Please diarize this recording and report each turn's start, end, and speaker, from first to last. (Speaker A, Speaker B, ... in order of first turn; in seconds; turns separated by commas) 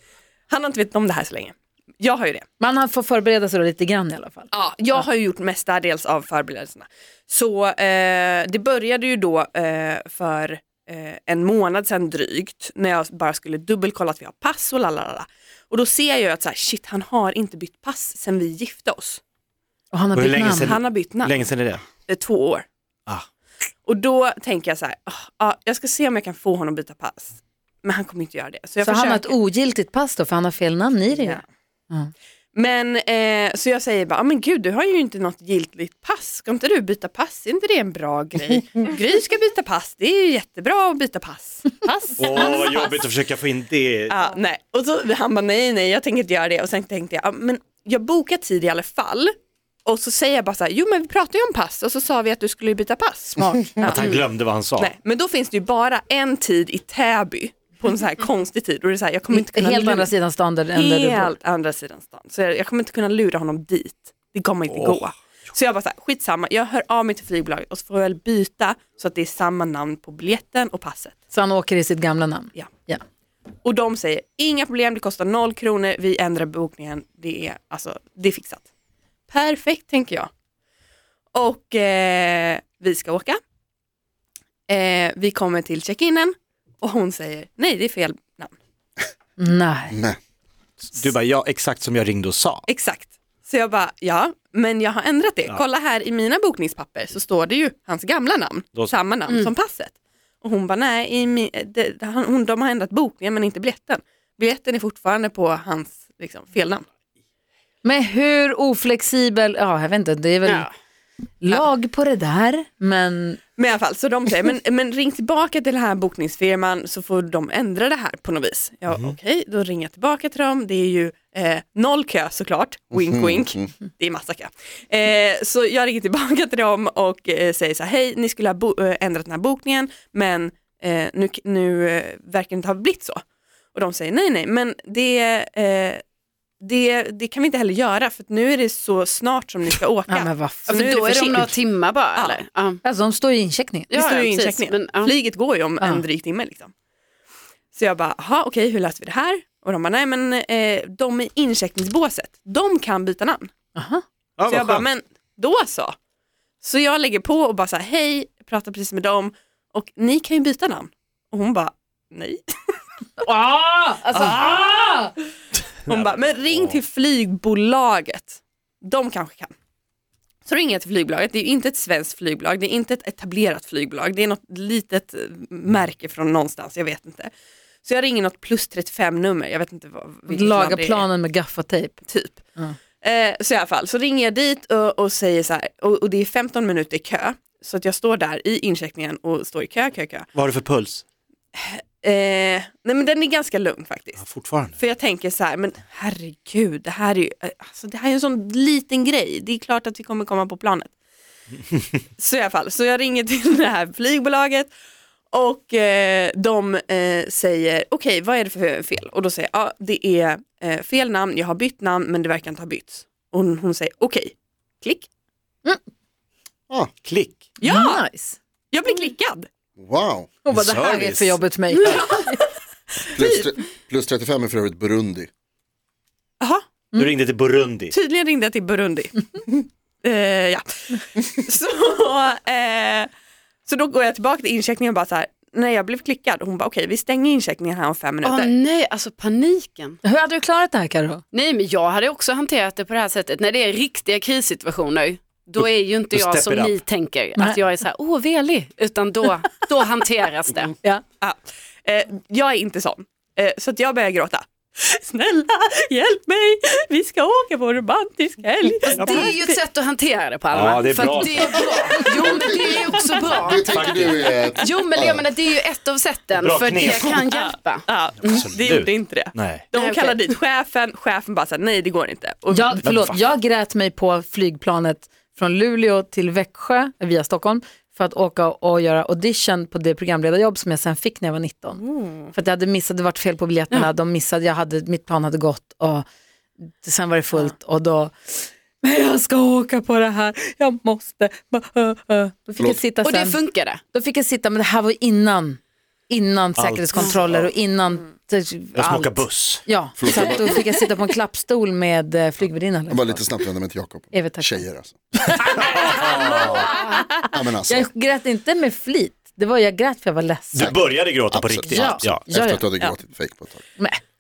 Speaker A: 0.5-2.5, Speaker B: 2.6-5.0, Speaker A: 4.5-19.2, Speaker B: 19.9-20.8, Speaker C: 20.1-21.9, Speaker A: 20.5-22.7, Speaker A: 23.9-29.3, Speaker B: 28.8-32.1, Speaker A: 31.1-31.4, Speaker A: 32.5-43.1, Speaker C: 42.2-44.1, Speaker A: 44.1-49.3, Speaker A: 49.9-54.3, Speaker B: 53.4-53.7, Speaker C: 53.8-54.9, Speaker A: 54.8-60.1, Speaker B: 59.3-61.4, Speaker A: 60.7-71.2, Speaker B: 71.3-73.0, Speaker A: 73.6-78.7, Speaker A: 79.3-80.3, Speaker A: 81.3-83.4, Speaker A: 84.7-88.5, Speaker B: 89.4-90.0, Speaker D: 89.9-90.2, Speaker C: 90.8-92.7, Speaker A: 92.7-106.8, Speaker B: 107.8-110.7, Speaker B: 111.4-113.4, Speaker A: 113.6-133.2, Speaker D: 122.9-123.7, Speaker A: 133.7-136.0, Speaker A: 136.6-141.5, Speaker B: 140.1-140.8, Speaker E: 140.7-142.8, Speaker B: 142.8-143.9, Speaker E: 143.9-145.1, Speaker A: 143.9-146.7, Speaker A: 147.7-153.5, Speaker B: 153.8-154.0, Speaker C: 154.4-154.8, Speaker A: 154.5-156.0, Speaker A: 156.6-162.8, Speaker E: 163.2-164.5, Speaker B: 163.6-165.0, Speaker A: 164.2-165.1, Speaker C: 165.9-166.8, Speaker A: 165.9-169.5, Speaker A: 170.4-177.3, Speaker A: 177.8-181.1, Speaker B: 180.3-182.0, Speaker A: 182.1-182.4, Speaker A: 183.0-190.3, Speaker C: 190.3-191.0, Speaker A: 191.6-200.9, Speaker C: 194.2-194.8, Speaker A: 202.2-204.7, Speaker A: 205.3-215.1, Speaker C: 217.1-217.5, Speaker A: 217.6-218.0, Speaker B: 217.6-218.4, Speaker A: 218.7-219.5, Speaker D: 219.8-220.3, Speaker B: 220.4-222.4, Speaker C: 220.5-221.4, Speaker D: 223.2-225.3, Speaker C: 227.0-227.9, Speaker A: 227.9-233.1, Speaker A: 233.7-238.5, Speaker E: 238.2-240.0, Speaker B: 240.0-241.2, Speaker E: 241.3-250.7, Speaker C: 245.6-246.8, Speaker A: 251.2-259.6, Speaker C: 259.0-259.3, Speaker E: 259.0-263.9, Speaker C: 260.5-261.5, Speaker A: 261.5-262.1, Speaker D: 262.3-265.2, Speaker C: 263.6-264.2, Speaker E: 264.6-267.9, Speaker C: 266.4-267.2, Speaker A: 267.0-272.9, Speaker C: 268.2-269.7, Speaker E: 269.8-270.3, Speaker B: 272.5-286.1, Speaker C: 272.8-273.2, Speaker A: 281.8-282.3, Speaker B: 286.8-293.4, Speaker E: 293.0-293.8, Speaker B: 293.9-303.2, Speaker C: 296.6-297.2, Speaker C: 298.8-299.6, Speaker D: 300.0-300.6, Speaker D: 302.9-305.0, Speaker B: 304.1-304.7, Speaker B: 305.2-307.0, Speaker C: 305.6-306.6, Speaker D: 307.3-307.9, Speaker B: 307.6-310.7, Speaker C: 310.6-312.3, Speaker D: 310.6-313.7, Speaker B: 311.7-312.7